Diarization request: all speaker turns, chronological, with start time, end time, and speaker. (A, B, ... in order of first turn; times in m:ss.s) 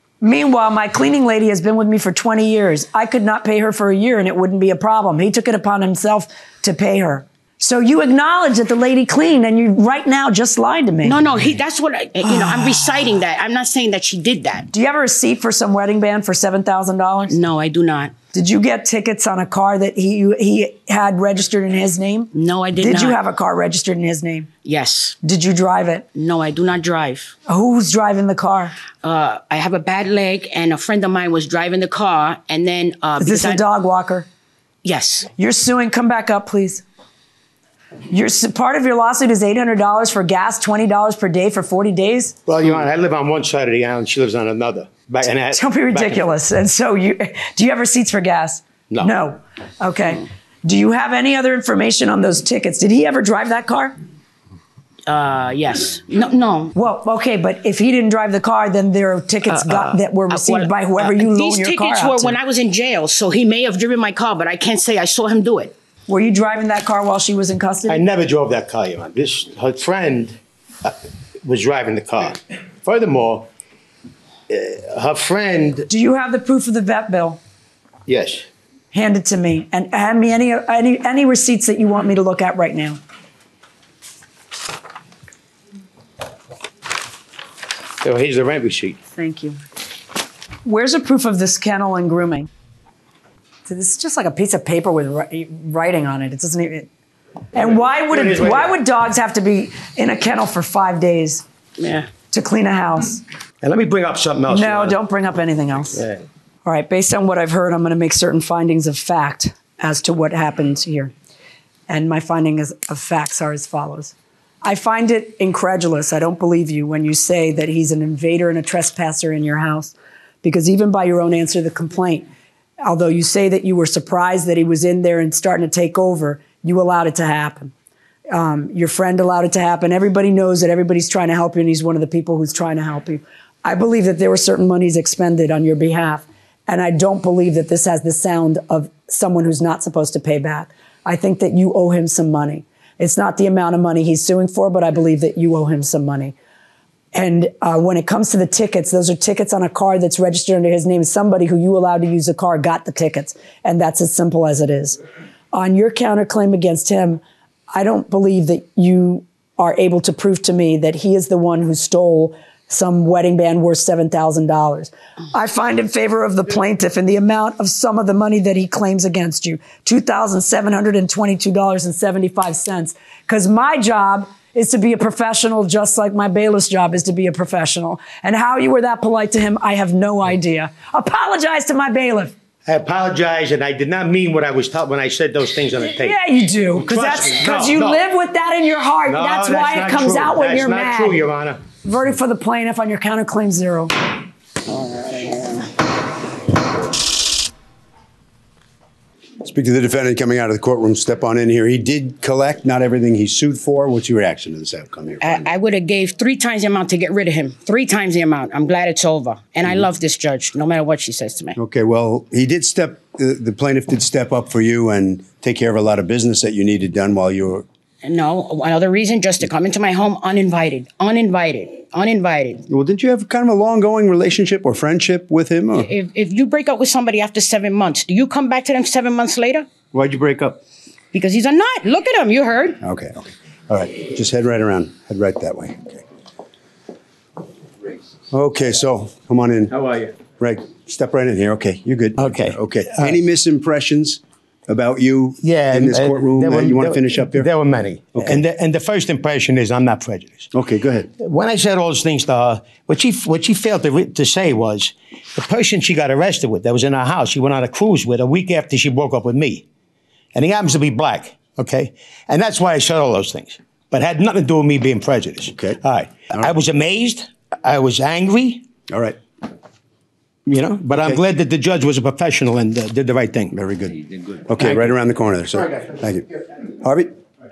0:00.2-0:11.2 A
0:11.0-0:14.7 B
0:14.7-0:17.4 A
0:17.3-0:18.1 B
0:18.3-0:22.3 A
0:22.3-0:23.2 B
0:22.8-0:24.5 A
0:24.6-0:25.2 B
0:25.2-0:26.0 A
0:26.2-0:27.4 B
0:27.5-0:28.8 A
0:29.0-0:33.6 B
0:33.2-0:34.3 A
0:34.8-0:35.3 B
0:35.4-0:36.8 A
0:38.1-0:42.4 A
0:42.5-0:46.3 C
0:45.5-0:53.9 A
0:55.1-0:56.7 B
0:56.8-1:02.4 A
0:59.5-1:05.8 B
1:06.1-1:08.0 A
1:07.9-1:13.5 C
1:14.5-1:15.9 C
1:15.9-1:17.4 A
1:18.1-1:18.5 C
1:18.9-1:23.0 A
1:28.0-1:29.0 C
1:29.2-1:29.6 A
1:30.6-1:32.5 A
1:33.7-1:36.9 A
1:37.6-1:38.8 C
1:37.6-1:41.4 A
1:41.8-1:42.1 B
1:42.3-1:43.2 A
1:43.6-1:45.0 C
1:44.5-1:46.0 A
1:46.0-1:46.2 C
1:46.6-1:51.1 A
1:51.9-2:02.3 A
2:02.8-2:07.7 A
2:08.3-2:26.3 A
2:27.1-2:35.0 A
2:35.5-3:02.3 A
3:02.7-3:06.2 C
3:05.9-3:11.2 A
3:06.8-3:08.0 C
3:09.1-3:11.6 C
3:11.8-3:13.9 A
3:14.7-3:15.7 B
3:19.4-3:25.5 D
3:25.2-3:31.6 B
3:31.6-3:37.7 D
3:38.0-3:42.7 B
3:42.7-3:45.9 D
3:45.8-3:49.7 B
3:49.9-3:50.6 D
3:51.1-3:52.8 B
3:52.8-3:56.0 D
3:58.3-3:59.8 D
3:59.7-4:00.2 C
4:00.3-4:07.5 D
4:02.2-4:03.2 C
4:05.4-4:10.5 C
4:08.2-4:08.4 D
4:10.5-4:11.1 D
4:11.2-4:19.6 C
4:20.4-4:28.7 C
4:28.9-4:29.2 D
4:30.5-4:33.6 C
4:30.9-4:31.2 D
4:33.5-4:36.3 D
4:34.6-4:34.9 C
4:36.8-4:37.1 D